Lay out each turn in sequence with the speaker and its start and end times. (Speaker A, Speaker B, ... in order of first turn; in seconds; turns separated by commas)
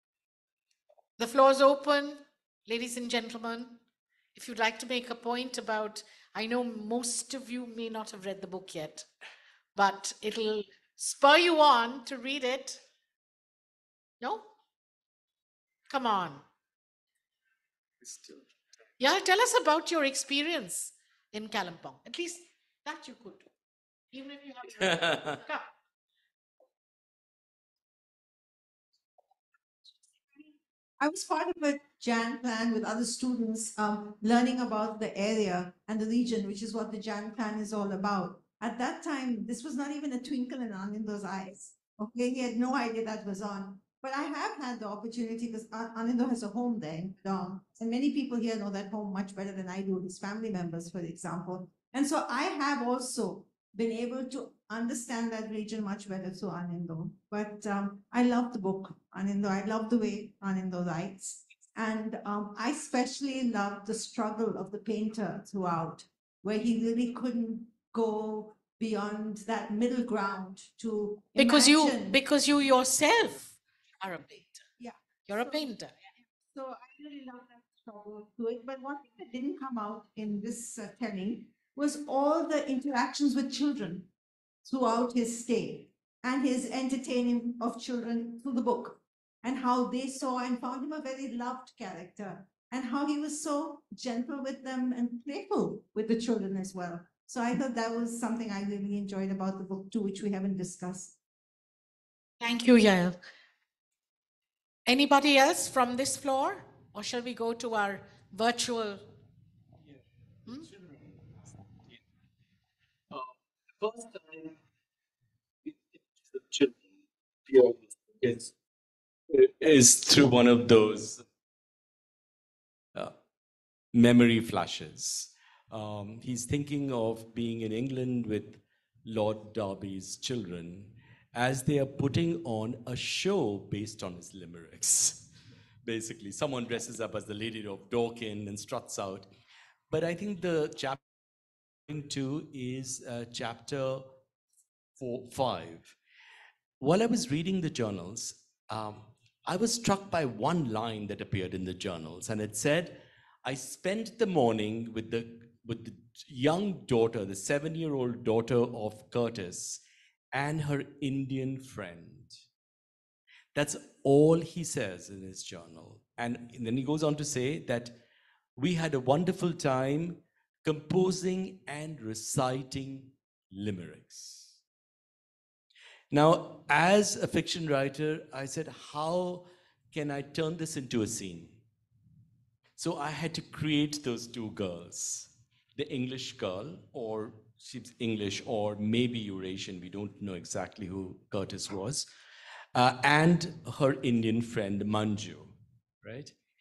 Speaker A: 1.2-3.8, Speaker A: 4.3-9.1, Speaker A: 9.8-12.8, Speaker A: 14.2-14.5, Speaker A: 15.9-16.4, Speaker B: 18.0-18.4, Speaker A: 19.0-23.5, Speaker A: 24.1-25.7, Speaker B: 24.8-25.4, Speaker C: 31.0-72.2, Speaker A: 71.3-74.6, Speaker C: 74.8-75.8, Speaker A: 75.3-76.0, Speaker C: 76.3-84.1, Speaker C: 84.6-101.2, Speaker A: 102.4-103.2, Speaker A: 104.9-109.1, Speaker B: 113.8-114.5, Speaker B: 116.3-116.8, Speaker B: 117.5-118.5, Speaker B: 119.3-121.2, Speaker B: 123.9-135.3, Speaker B: 135.8-139.3, Speaker B: 139.9-141.0, Speaker B: 141.9-144.2, Speaker B: 145.0-146.0, Speaker B: 146.8-162.4, Speaker B: 163.6-168.0, Speaker B: 168.6-174.6, Speaker B: 176.1-181.6, Speaker B: 182.8-192.1, Speaker B: 192.7-196.3